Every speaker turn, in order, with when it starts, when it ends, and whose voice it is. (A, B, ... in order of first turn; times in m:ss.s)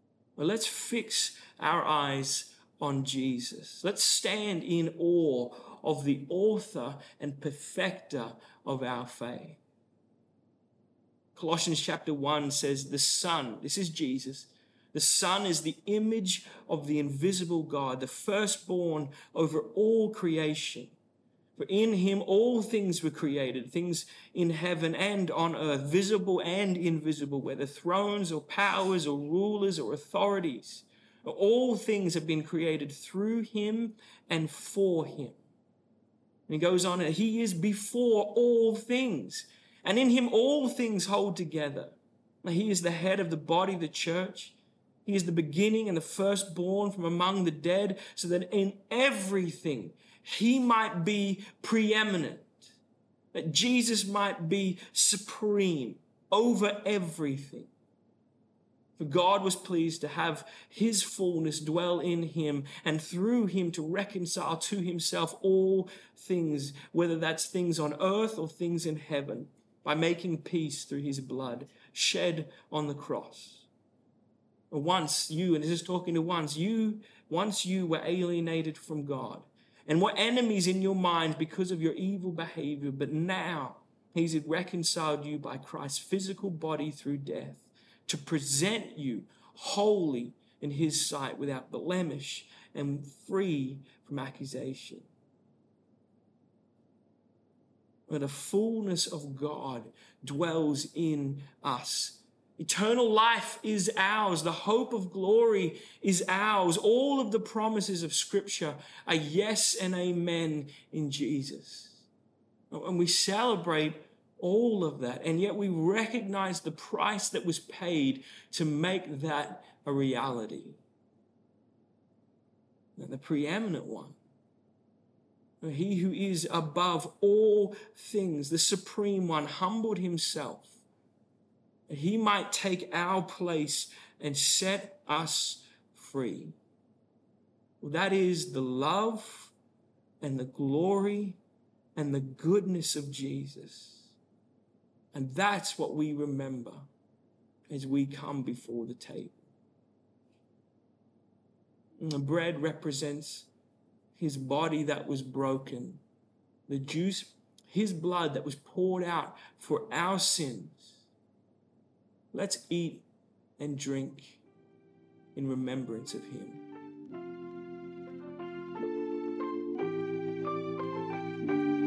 0:00.4-0:09.6 A
0:11.3-0:20.9 A
0:21.5-0:35.4 A
0:36.5-0:52.6 A
0:53.3-0:57.7 A
0:59.0-1:13.7 A
1:14.7-1:35.1 A
1:38.1-1:52.1 A
1:52.7-2:00.8 A
2:03.0-2:04.2 A
2:05.6-2:10.8 A
2:11.9-2:16.6 A
2:17.8-2:19.5 A
2:20.2-2:21.4 A
2:21.9-2:24.1 A
2:25.1-2:26.9 A
2:27.7-2:29.4 A
2:32.0-2:33.5 A
2:34.1-2:36.0 A
2:36.7-2:41.0 A
2:42.3-2:43.0 A
2:43.6-2:44.4 A
2:45.3-2:46.6 A